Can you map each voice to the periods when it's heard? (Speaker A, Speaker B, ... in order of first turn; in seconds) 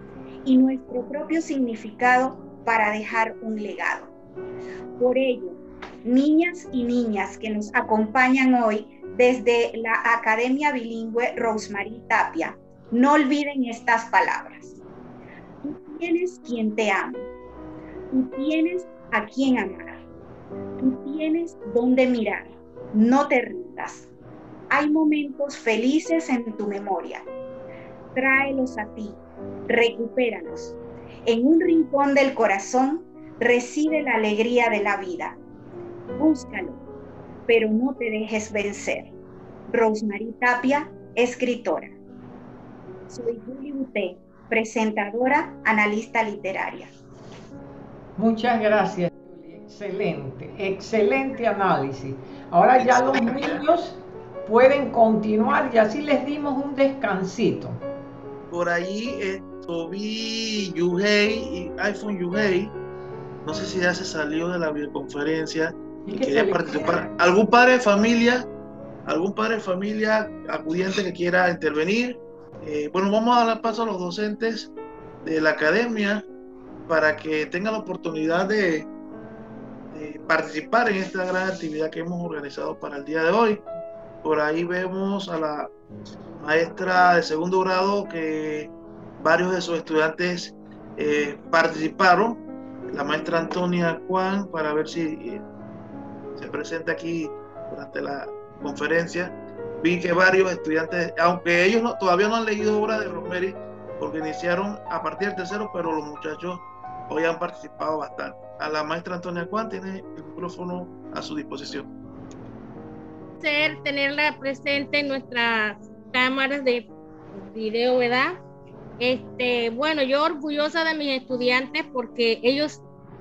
Speaker A: 0.4-4.1, 5.0-14.7, 15.6-17.3, 18.1-20.0, 20.8-24.1, 24.7-27.2, 28.1-30.7, 31.2-35.4, 36.2-36.8, 37.5-39.1, 39.7-41.9, 43.1-46.9
Speaker B: 48.2-57.8, 66.0-67.1
Speaker C: 52.8-53.6, 58.5-62.7, 63.4-68.5, 69.0-74.7, 75.2-76.2, 76.9-78.9, 79.9-83.6, 84.2-85.7, 86.4-95.4, 96.4-111.9
Speaker D: 113.4-118.4, 119.0-122.8